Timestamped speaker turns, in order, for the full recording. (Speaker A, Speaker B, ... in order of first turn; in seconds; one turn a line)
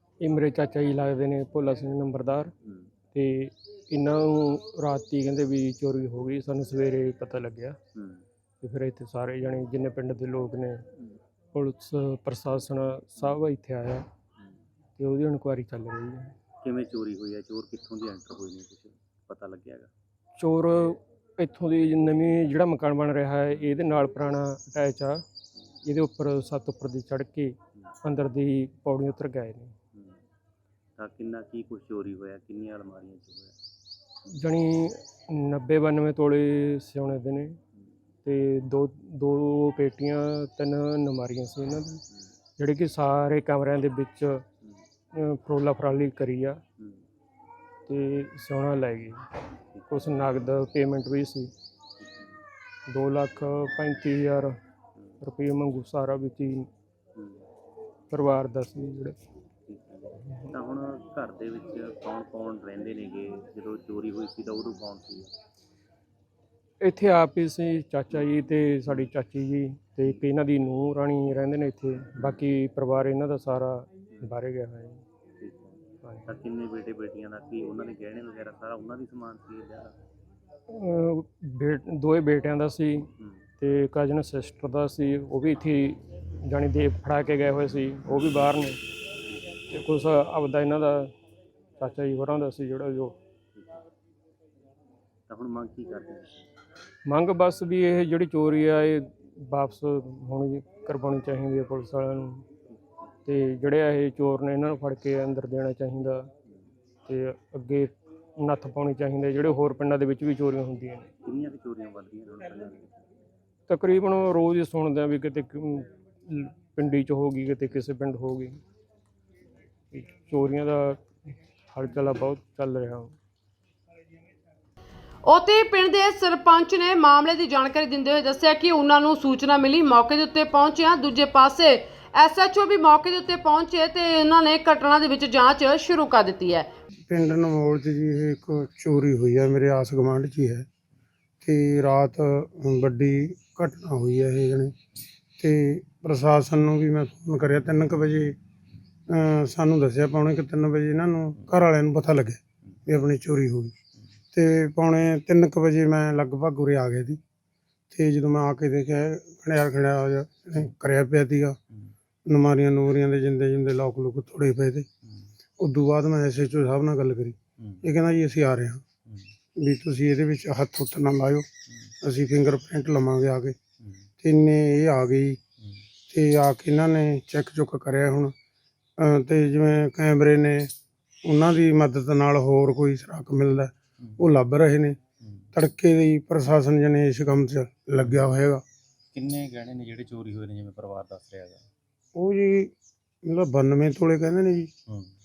Speaker A: 0.2-2.5
Speaker A: 3.1-7.8
Speaker B: 7.9-8.2
Speaker A: 8.6-10.8
Speaker A: 11.5-14.1
Speaker A: 15.0-16.3
Speaker B: 16.6-19.9
Speaker A: 20.4-25.2
Speaker A: 25.8-29.7
Speaker B: 29.9-30.2
Speaker B: 31.0-33.5
Speaker A: 34.4-37.6
Speaker A: 38.2-42.0
Speaker A: 42.6-44.4
Speaker A: 45.1-46.6
Speaker A: 47.9-49.2
Speaker A: 49.9-51.5
Speaker B: 52.0-52.3
Speaker A: 52.9-54.5
Speaker A: 55.2-56.7
Speaker B: 57.1-57.4
Speaker A: 58.1-59.2
Speaker B: 59.6-65.3
Speaker A: 66.8-75.0
Speaker B: 72.2-72.4
Speaker B: 75.4-80.0
Speaker A: 76.0-76.3
Speaker A: 80.7-83.1
Speaker A: 83.6-88.8
Speaker A: 89.7-91.1
Speaker A: 91.8-93.1
Speaker B: 95.3-96.4
Speaker A: 97.1-102.4
Speaker A: 103.2-106.3
Speaker A: 107.0-111.1
Speaker B: 111.2-113.0
Speaker A: 113.7-118.6
Speaker A: 119.9-123.1
Speaker C: 125.2-136.7
Speaker D: 137.1-140.7
Speaker D: 141.4-144.7
Speaker D: 145.4-148.4
Speaker D: 149.1-153.7
Speaker D: 154.3-157.2
Speaker D: 157.9-161.6
Speaker D: 162.2-164.9
Speaker D: 165.6-168.8
Speaker B: 167.6-167.8
Speaker D: 169.6-171.5
Speaker D: 172.0-173.6
Speaker B: 173.8-174.1
Speaker D: 174.2-175.4
Speaker D: 176.1-178.3
Speaker D: 179.0-180.7
Speaker D: 181.2-185.0
Speaker D: 185.5-188.6
Speaker B: 188.0-188.4
Speaker B: 189.1-191.6
Speaker D: 192.1-194.7